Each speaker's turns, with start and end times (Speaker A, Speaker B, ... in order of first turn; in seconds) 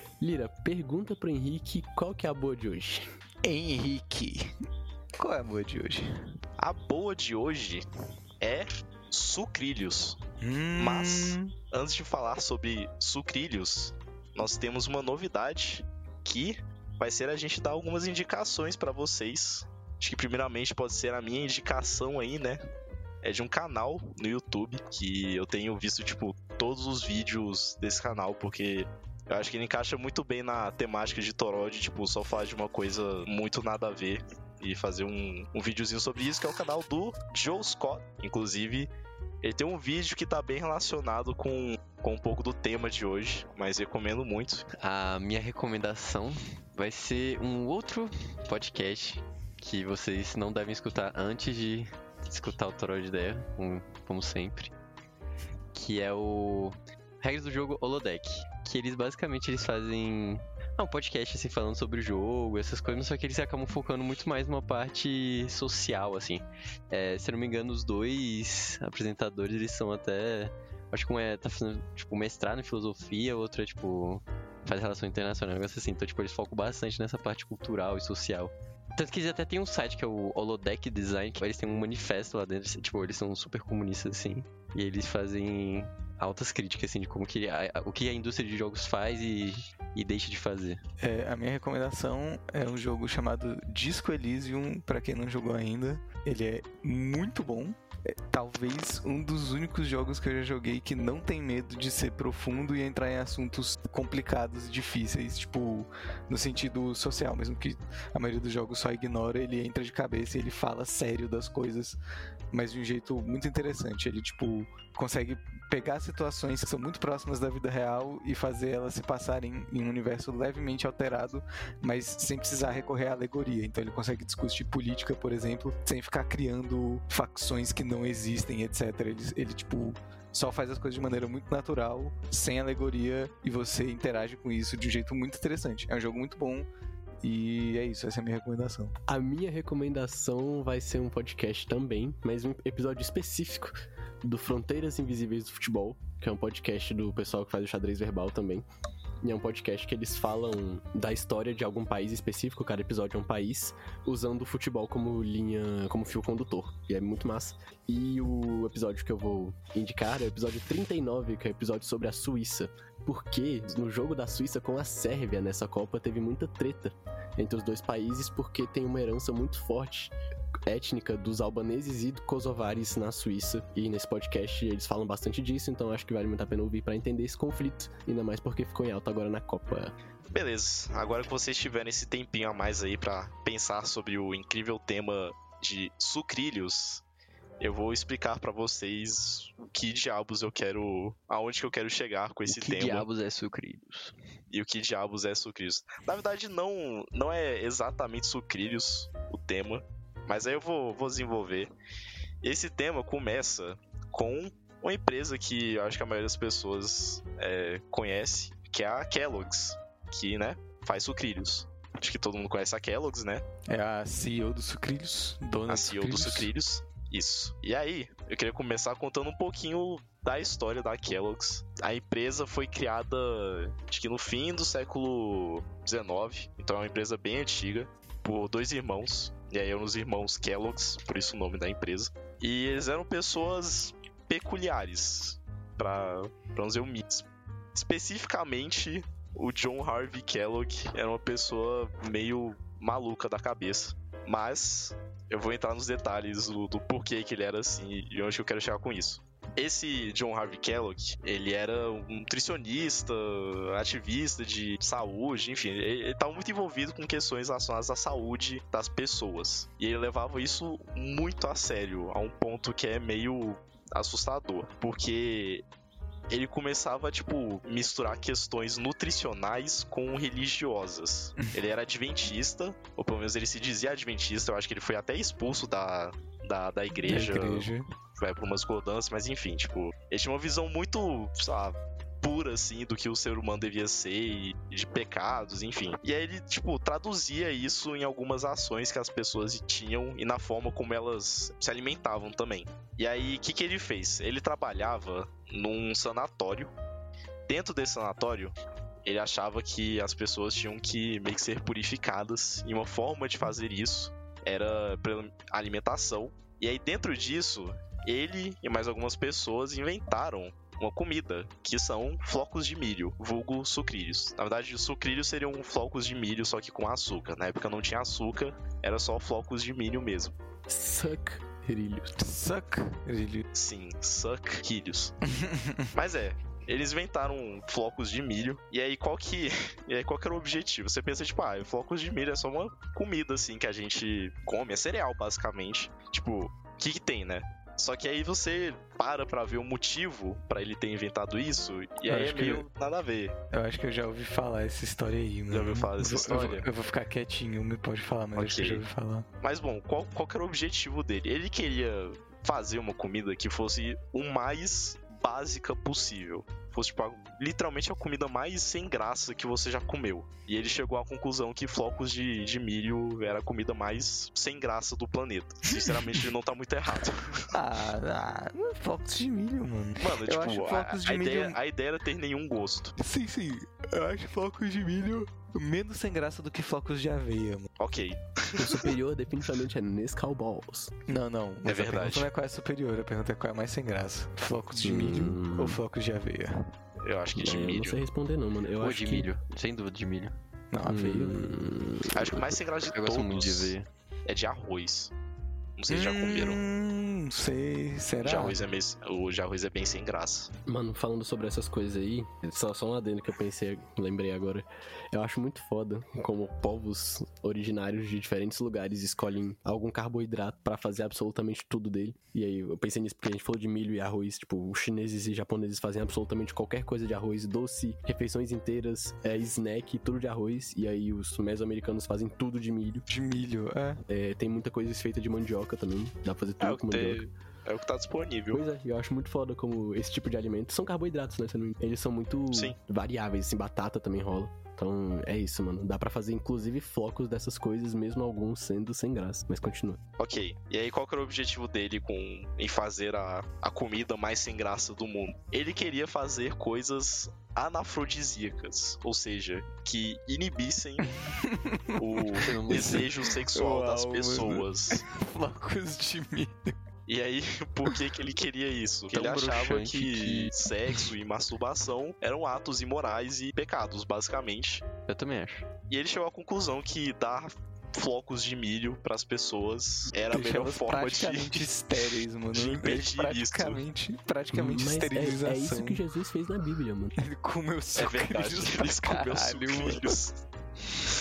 Speaker A: 0.2-3.1, 139.1-148.6, 149.2-170.1, 170.7-179.9, 320.7-322.1, 378.6-380.9, 384.8-385.8, 387.3-389.3, 390.9-392.6, 400.6-423.0, 424.1-427.2, 428.5-440.0, 474.5-477.1
Speaker B: 3.4-4.5, 5.2-6.1, 10.4-11.5, 91.0-112.0, 112.5-136.7, 137.2-138.9, 213.7-216.5, 276.9-277.9, 322.1-323.4, 325.3-325.9, 342.0-342.6, 343.5-349.2, 365.8-366.2, 367.5-371.6, 372.9-377.7, 381.1-386.7, 390.7-391.7, 395.9-398.6, 423.1-424.0, 451.1-456.7, 470.3-476.0, 477.2-480.2
Speaker C: 6.6-7.8, 8.4-10.2, 10.8-22.6, 23.2-38.9, 39.4-44.6, 180.3-187.0, 187.6-193.1, 194.5-201.7, 202.4-213.4, 215.7-265.6, 266.3-296.7, 297.5-320.3, 323.5-325.1, 325.9-343.3, 345.5-346.6, 348.4-348.8, 349.4-367.5, 370.0-372.9, 377.8-378.9, 381.6-382.3, 387.0-388.0, 392.1-393.7, 394.2-395.1, 395.8-396.6, 398.2-400.5, 426.6-428.6, 440.2-451.1, 452.0-455.0, 457.1-464.9, 465.9-471.7, 472.5-473.8, 477.9-480.4
Speaker D: 44.8-54.7, 55.7-90.8, 192.5-194.1, 388.8-390.3, 392.9-393.9, 452.4-453.1, 459.1-460.5, 465.1-465.7